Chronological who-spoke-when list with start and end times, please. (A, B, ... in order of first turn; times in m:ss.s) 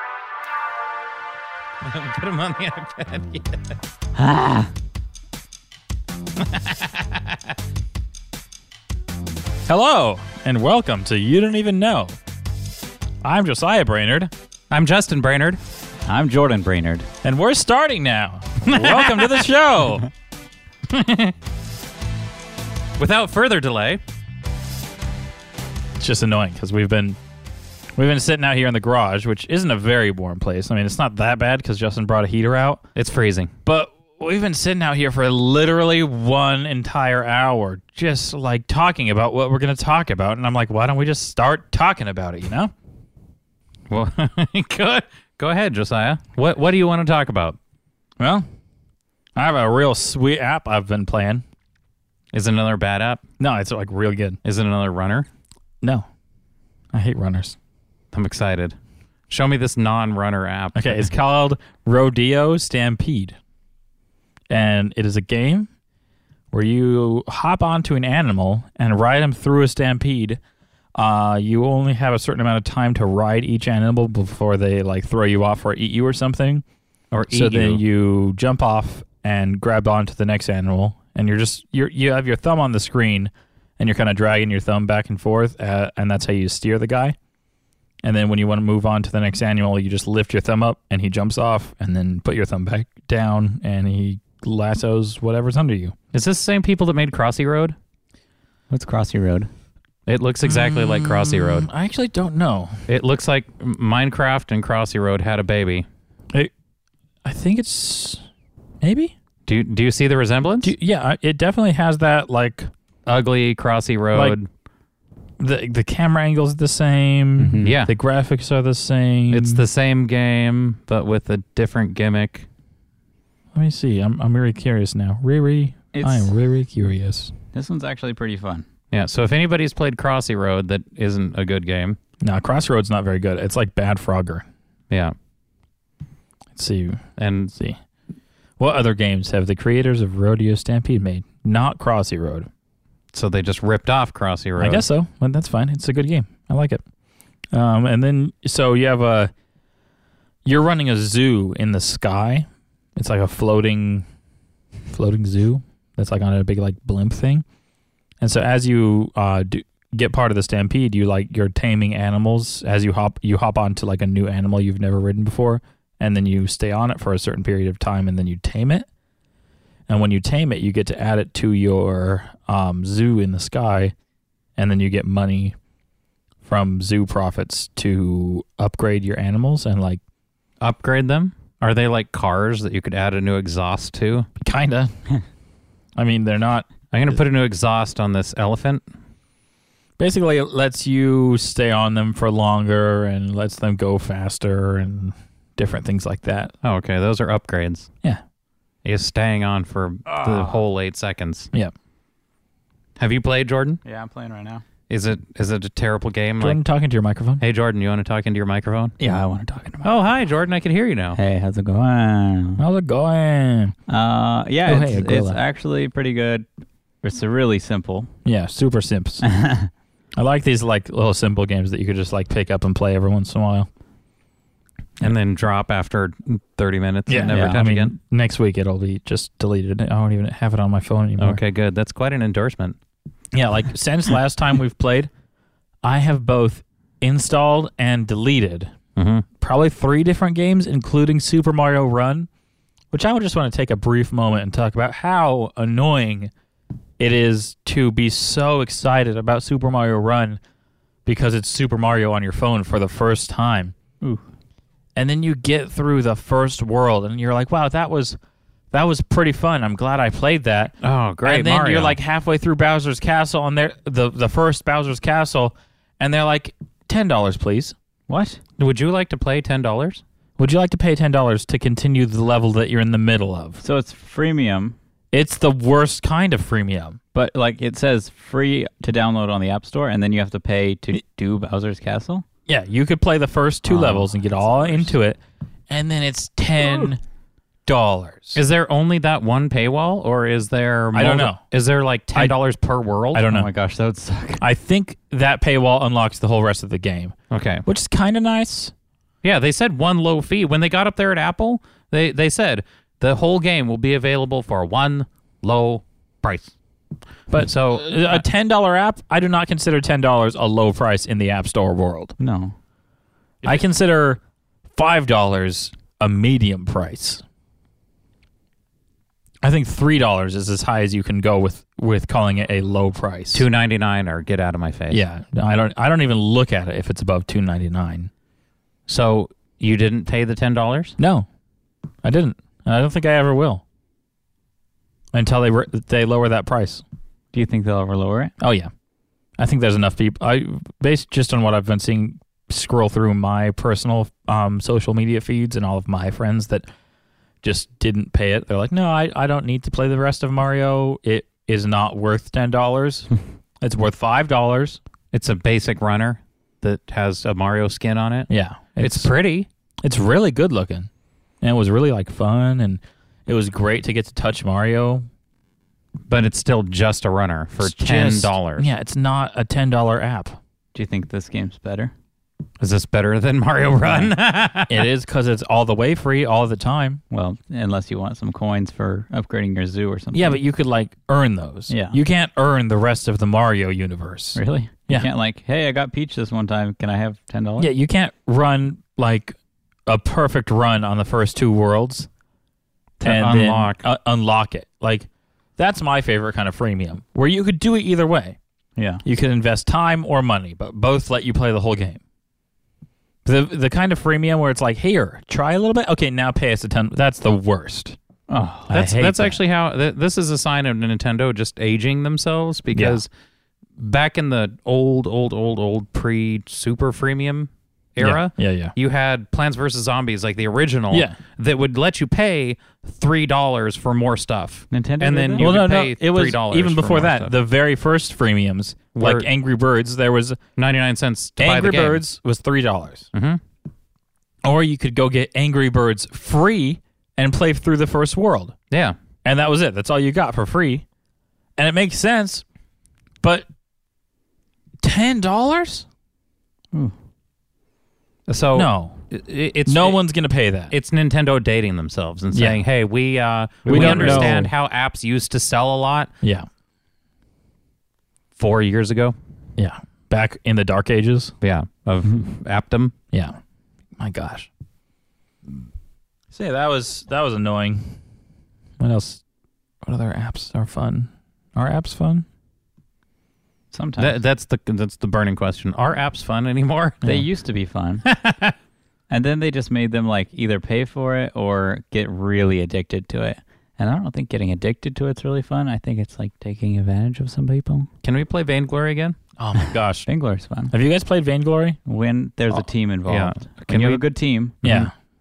0:01.8-0:03.6 A
0:04.2-0:04.7 B
0:06.4-0:07.3 A
0:09.7-0:12.1 C
0:13.2-0:14.3 C
0:14.7-0:15.6 A
0:16.1-0:17.1 B
0:17.2-0:20.1 C
0:18.6-0:19.5 A
0:20.9-0:21.3 A
0:23.0-0:24.0 A
0:26.0-0:27.2 C
0:28.0-0:32.8 C
0:33.0-0:33.5 A
0:33.7-0:42.7 C
0:43.9-0:47.6 A
0:48.2-0:48.5 C
0:49.4-0:51.4 C
0:52.3-0:53.2 A
0:53.4-0:54.4 C
0:54.4-0:55.3 A
0:56.9-0:57.6 C
0:58.1-0:58.8 A
0:59.3-1:01.1 A
1:00.8-1:03.4 C
1:04.5-1:05.7 C
1:06.5-1:10.4 C
1:11.0-1:16.6 C
1:17.1-1:17.8 A
1:17.3-1:27.2 C
1:28.0-1:36.0 C
1:36.1-1:37.8 A
1:38.7-1:39.5 B
1:40.1-1:41.7 A
1:40.4-1:42.8 C
1:42.9-1:45.9 A
1:47.2-1:48.2 C
1:48.8-1:49.1 C
1:49.5-1:50.7 A
1:50.6-1:52.7 C
1:53.1-1:54.5 A
1:54.1-1:54.4 C
1:55.4-1:59.6 C
1:57.4-1:57.8 B
1:57.6-1:57.9 A
1:59.3-2:02.5 A
2:03.6-2:07.3 C
2:05.9-2:06.3 B
2:07.5-2:08.7 B
2:08.9-2:12.0 A
2:12.2-2:14.4 C
2:16.6-2:17.0 C
2:17.2-2:17.5 A
2:18.6-2:22.5 C
2:23.1-2:24.8 A
2:24.6-2:26.8 C
2:27.5-2:29.3 C
2:30.4-2:34.0 C
2:34.9-2:37.4 C
2:38.2-2:48.9 C
2:49.9-2:53.9 C
2:54.6-2:55.6 C
2:56.4-3:00.0 C
3:00.6-3:04.3 A
3:04.4-3:04.9 C
3:06.0-3:06.7 C
3:06.9-3:08.8 A
3:10.0-3:16.5 C
3:16.6-3:17.9 A
3:18.8-3:21.5 A
3:20.1-3:20.6 B
3:23.0-3:23.8 A
3:23.8-3:24.6 B
3:24.9-3:26.6 A
3:26.4-3:27.4 C
3:27.4-3:29.0 A
3:29.0-3:29.9 B
3:29.8-3:31.2 A
3:31.2-3:32.6 B
3:32.6-3:33.8 C
3:33.9-3:36.5 B
3:34.7-3:35.4 C
3:37.0-3:38.1 B
3:38.2-3:39.3 C
3:39.2-3:39.7 B
3:40.2-3:43.7 C
3:45.0-3:48.0 A
3:47.1-3:51.4 C
3:47.2-3:47.6 B
3:51.2-3:52.8 A
3:53.3-3:55.1 C
3:55.8-3:58.7 C
3:59.0-3:59.2 A
3:59.4-4:02.3 C
4:02.9-4:06.3 C
4:07.0-4:10.4 C
4:11.1-4:13.8 C
4:15.0-4:18.2 C
4:18.7-4:20.7 C
4:20.8-4:22.0 A
4:21.2-4:27.8 C
4:28.1-4:28.4 B
4:28.6-4:30.0 A
4:30.4-4:33.6 C
4:33.6-4:34.8 B
4:35.1-4:37.0 C
4:37.1-4:42.2 B
4:42.5-4:45.2 C
4:43.7-4:44.9 B
4:45.7-4:47.0 C
4:47.7-4:48.4 C
4:48.4-4:53.2 A
4:51.0-4:51.4 C
4:53.1-4:53.5 C
4:53.3-4:54.4 B
4:54.4-4:57.1 C
4:57.3-4:57.6 A
4:57.7-4:58.7 C
4:59.2-5:06.5 A
5:07.3-5:12.2 C
5:07.3-5:08.2 A
5:12.2-5:12.6 B
5:13.4-5:14.2 C
5:14.8-5:17.2 C
5:19.4-5:23.4 C
5:23.3-5:25.0 A
5:24.9-5:28.1 C
5:28.9-5:31.0 A
5:31.0-5:31.3 C
5:32.0-5:33.6 C
5:35.1-5:36.8 C
5:37.3-5:38.3 B
5:38.4-5:38.7 C
5:39.4-5:46.7 C
5:47.4-5:53.1 C
5:53.6-5:54.8 C
5:55.1-5:58.3 A
5:58.3-5:59.1 C
5:58.8-5:59.5 A
5:59.8-6:00.9 C
6:01.4-6:05.1 C
6:06.1-6:08.7 A
6:07.6-6:10.4 C
6:10.7-6:11.9 B
6:12.6-6:14.9 A
6:13.8-6:14.1 B
6:14.7-6:17.0 C
6:17.1-6:20.4 B
6:20.1-6:25.1 C
6:21.7-6:22.0 B
6:24.4-6:27.7 B
6:27.6-6:29.4 C
6:29.9-6:32.1 C
6:33.0-6:38.4 C
6:33.0-6:33.8 A
6:38.8-6:39.0 B
6:39.0-6:42.0 C
6:43.2-6:48.0 C
6:48.3-6:48.7 B
6:48.7-6:49.4 C
6:48.7-6:53.1 A
6:52.8-6:53.0 C
6:53.8-7:07.3 A
6:58.0-6:58.7 C
7:00.9-7:01.2 C
7:04.7-7:05.5 B
7:05.4-7:10.4 C
7:09.0-7:09.3 A
7:10.6-7:12.0 A
7:11.4-7:13.1 C
7:13.1-7:13.4 A
7:14.4-7:18.5 C
7:18.7-7:19.0 A
7:19.2-7:20.8 C
7:21.6-7:22.4 C
7:23.2-7:23.5 C
7:24.8-7:25.9 C
7:28.3-7:30.0 A
7:28.6-7:29.0 C
7:29.7-7:30.7 C
7:30.7-7:36.1 A
7:32.3-7:32.6 C
7:33.7-7:34.5 C
7:33.7-7:34.5 B
7:36.2-7:36.5 C
7:38.4-7:39.2 A
7:39.6-7:41.3 C
7:41.4-7:42.9 A
7:43.1-7:43.4 C
7:44.0-7:44.5 C
7:46.3-7:48.0 C
7:48.8-7:49.2 C
7:49.8-7:52.3 C
7:53.7-7:54.2 B
7:54.0-7:57.2 A
7:57.0-7:58.1 B
7:58.0-7:58.6 A
7:59.1-8:07.9 B
8:08.0-8:09.2 A
8:09.4-8:10.1 C
8:10.1-8:10.7 B
8:10.7-8:11.8 C
8:11.9-8:14.9 B
8:13.1-8:14.0 A
8:14.6-8:14.9 C